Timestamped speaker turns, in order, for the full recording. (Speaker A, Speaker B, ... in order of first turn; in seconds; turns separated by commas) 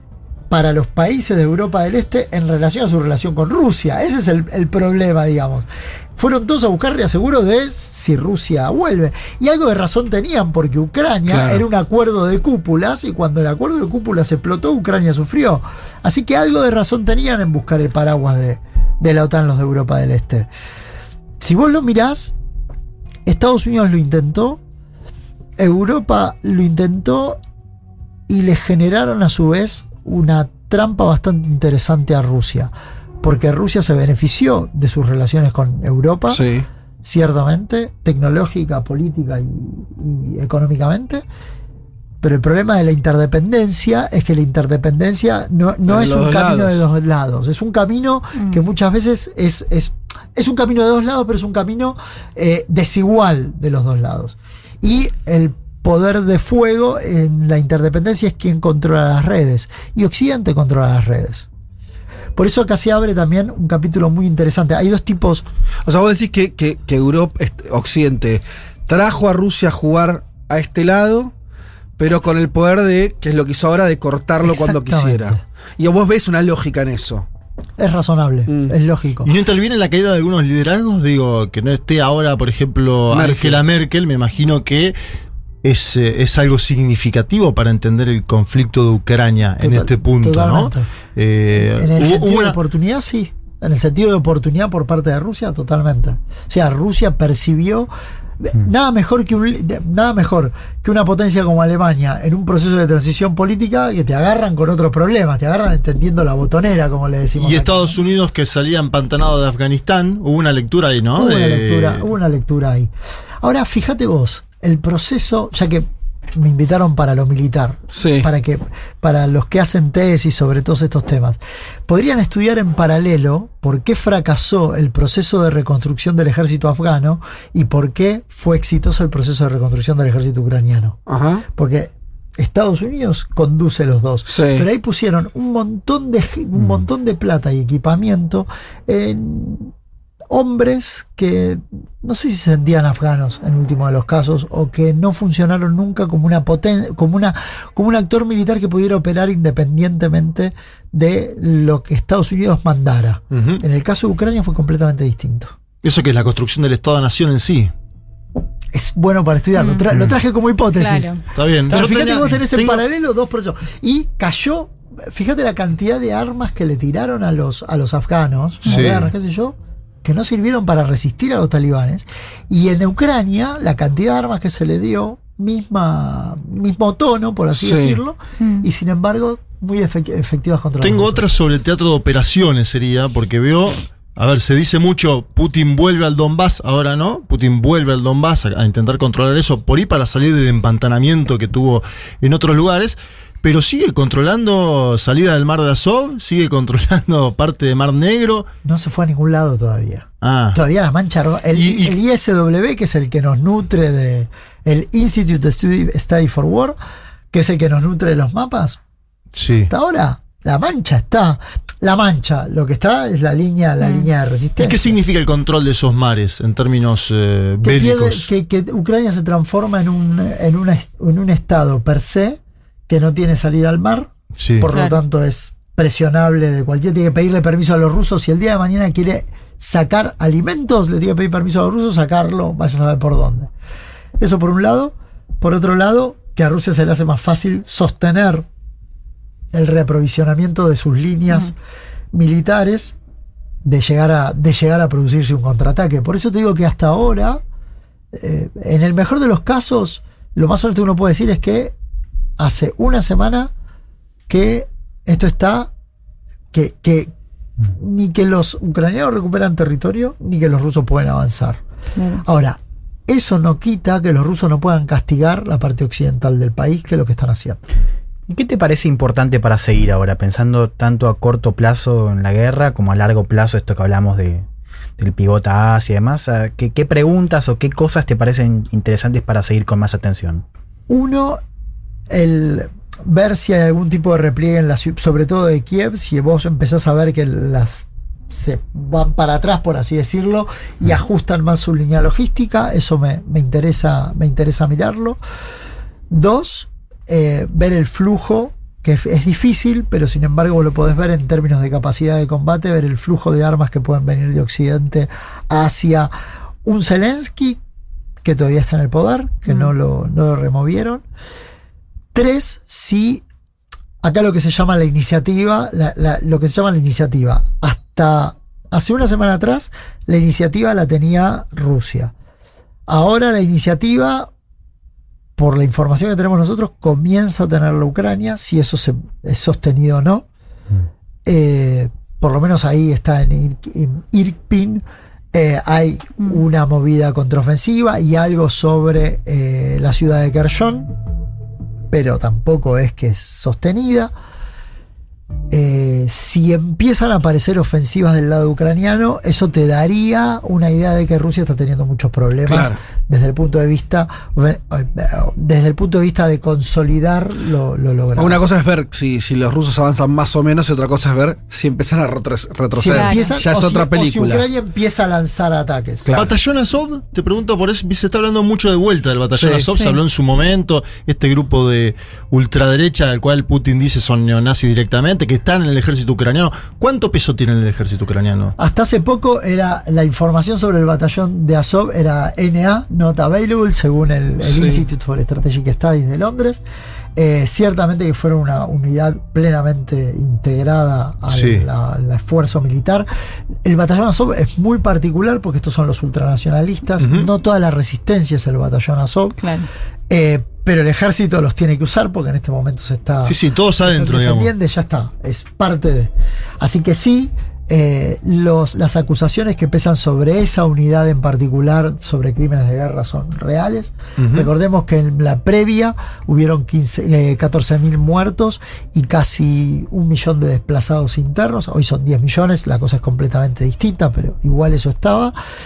Speaker A: 0.5-20.5, Speaker B: 11.3-11.6, Speaker A: 21.4-22.3, Speaker A: 23.2-24.6, Speaker A: 25.6-27.4, Speaker A: 28.3-36.4, Speaker B: 36.3-36.7, Speaker A: 37.0-41.2, Speaker A: 42.2-61.5, Speaker B: 45.9-46.8, Speaker C: 48.3-48.6, Speaker A: 62.4-65.4, Speaker B: 65.8-71.3, Speaker B: 72.0-77.2, Speaker A: 74.4-75.4, Speaker A: 77.8-79.3, Speaker B: 78.5-78.8, Speaker D: 79.2-85.0, Speaker B: 83.1-83.6, Speaker D: 85.6-92.6, Speaker A: 89.6-90.9, Speaker A: 91.5-108.0, Speaker D: 107.3-112.0, Speaker A: 111.2-112.9, Speaker A: 113.4-131.0, Speaker B: 117.9-118.3, Speaker B: 131.1-131.4, Speaker A: 131.6-139.7, Speaker B: 134.3-134.7, Speaker A: 140.3-155.6, Speaker D: 153.3-153.6, Speaker D: 155.8-157.7, Speaker A: 158.7-161.1, Speaker C: 159.6-159.9, Speaker C: 160.7-161.2, Speaker D: 161.3-162.8, Speaker A: 161.7-181.2, Speaker D: 168.7-169.1, Speaker B: 177.6-178.0, Speaker C: 178.4-178.7, Speaker D: 180.8-198.5, Speaker A: 198.6-206.8, Speaker D: 200.2-200.6, Speaker D: 201.5-201.9, Speaker A: 207.3-208.8, Speaker D: 209.3-209.7, Speaker A: 209.7-214.9, Speaker C: 213.8-214.1, Speaker D: 214.6-218.3, Speaker A: 217.6-233.5, Speaker D: 224.3-224.7, Speaker C: 224.7-225.0, Speaker A: 234.2-238.5, Speaker A: 239.5-241.5, Speaker A: 242.1-242.9, Speaker A: 243.6-247.4, Speaker A: 248.1-251.7, Speaker A: 252.4-253.5, Speaker A: 254.3-255.7, Speaker A: 256.5-257.1, Speaker A: 257.7-261.6, Speaker C: 261.9-262.2, Speaker A: 262.2-267.6, Speaker E: 268.3-274.4, Speaker E: 275.0-280.4, Speaker A: 280.9-281.4, Speaker A: 282.1-295.2, Speaker A: 296.1-306.1, Speaker A: 306.6-307.6, Speaker A: 308.2-311.0, Speaker C: 309.5-309.7, Speaker A: 312.1-313.2, Speaker A: 314.0-322.1, Speaker A: 322.9-324.3, Speaker A: 325.4-330.2, Speaker A: 331.2-340.9, Speaker A: 341.9-344.1, Speaker A: 345.5-358.4, Speaker B: 352.5-352.8, Speaker B: 358.1-364.4, Speaker A: 362.8-366.1, Speaker C: 362.9-363.3, Speaker B: 366.0-366.3, Speaker D: 366.1-378.5, Speaker B: 369.4-369.7, Speaker C: 369.7-370.0, Speaker A: 378.6-386.6, Speaker B: 384.4-384.8, Speaker A: 387.1-393.1, Speaker D: 391.3-391.6, Speaker A: 393.6-399.4, Speaker D: 397.0-397.3, Speaker C: 399.4-399.7, Speaker A: 400.1-425.3, Speaker D: 403.2-404.5, Speaker D: 414.2-414.5